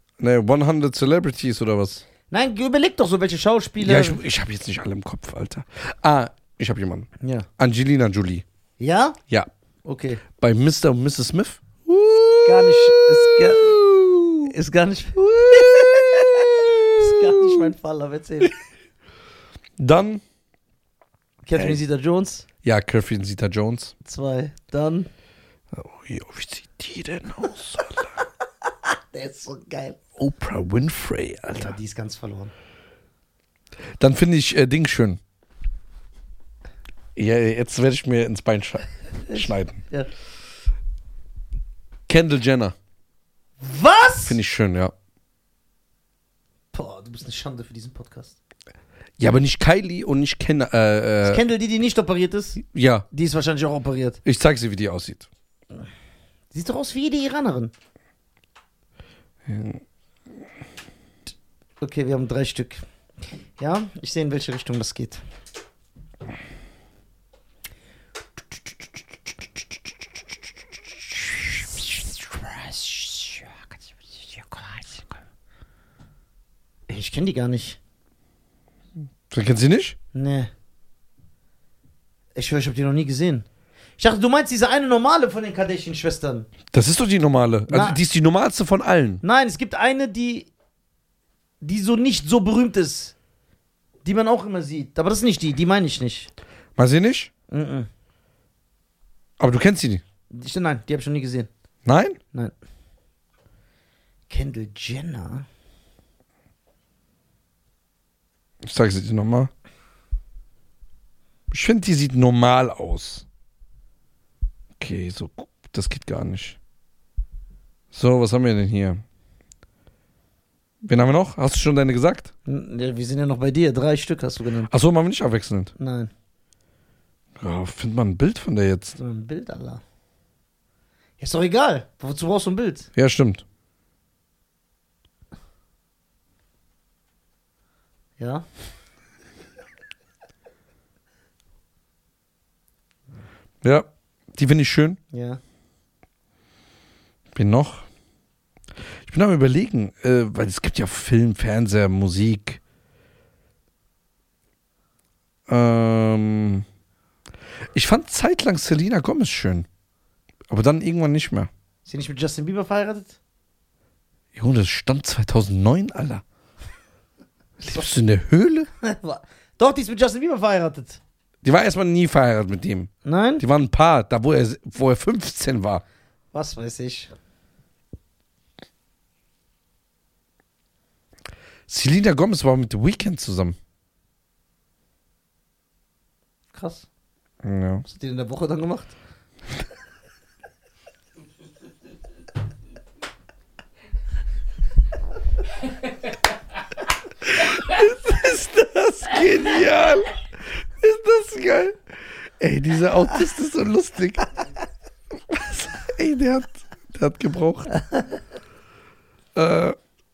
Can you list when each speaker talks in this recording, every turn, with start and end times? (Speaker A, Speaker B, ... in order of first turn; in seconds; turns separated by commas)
Speaker A: 0.2-2.0, Speaker B: 2.3-4.2, Speaker A: 3.8-8.4, Speaker B: 7.2-7.5, Speaker B: 8.8-9.2, Speaker B: 9.8-10.2, Speaker A: 10.4-14.5, Speaker B: 12.4-13.8, Speaker B: 14.4-18.6, Speaker A: 15.4-17.7, Speaker A: 19.8-20.2, Speaker B: 21.4-22.5, Speaker A: 22.6-23.9, Speaker B: 24.0-25.1, Speaker A: 25.7-28.1, Speaker B: 28.9-30.0, Speaker A: 30.2-31.8, Speaker B: 31.6-32.5, Speaker A: 34.0-35.2, Speaker A: 37.2-39.8, Speaker B: 39.3-40.1, Speaker A: 42.1-42.8, Speaker B: 43.6-44.4, Speaker A: 44.3-44.9, Speaker B: 46.7-48.4, Speaker A: 49.2-51.4, Speaker B: 51.2-54.2, Speaker A: 52.6-53.1, Speaker A: 54.2-55.3, Speaker B: 56.5-57.7, Speaker A: 59.5-59.8, Speaker B: 61.8-62.8, Speaker B: 63.6-65.2, Speaker B: 72.0-73.5, Speaker B: 74.2-75.0, Speaker B: 76.9-77.8, Speaker A: 79.3-80.0, Speaker B: 80.1-80.5, Speaker B: 82.3-83.5, Speaker B: 84.0-86.5, Speaker A: 86.7-89.2, Speaker B: 87.7-88.0, Speaker B: 89.2-90.5, Speaker B: 91.6-93.1, Speaker B: 94.0-96.3, Speaker A: 96.8-97.3, Speaker B: 97.5-97.9, Speaker A: 99.4-100.0, Speaker B: 100.3-101.5, Speaker A: 101.8-102.2, Speaker B: 104.3-105.5, Speaker A: 108.6-109.5, Speaker A: 111.5-113.2, Speaker A: 114.8-116.6, Speaker A: 117.9-119.0, Speaker A: 120.8-122.3, Speaker B: 122.5-124.7, Speaker A: 124.7-125.7, Speaker B: 125.8-126.1, Speaker A: 127.4-129.0, Speaker B: 129.0-129.8, Speaker B: 131.2-132.9, Speaker A: 132.9-133.4, Speaker B: 138.2-138.4, Speaker A: 143.6-145.0, Speaker B: 145.1-145.4, Speaker A: 147.3-147.9, Speaker A: 149.0-152.6, Speaker A: 155.5-156.7, Speaker A: 157.7-159.7, Speaker A: 160.5-161.5, Speaker B: 161.9-163.2, Speaker A: 164.3-166.2, Speaker A: 167.6-168.7, Speaker B: 168.8-171.0, Speaker A: 171.4-175.8, Speaker B: 173.0-173.4, Speaker B: 176.3-177.1, Speaker A: 181.7-183.6, Speaker B: 186.5-186.9, Speaker A: 187.4-187.8, Speaker B: 187.8-188.9, Speaker A: 197.3-201.8, Speaker A: 202.4-204.3, Speaker A: 205.3-207.7, Speaker A: 209.3-209.8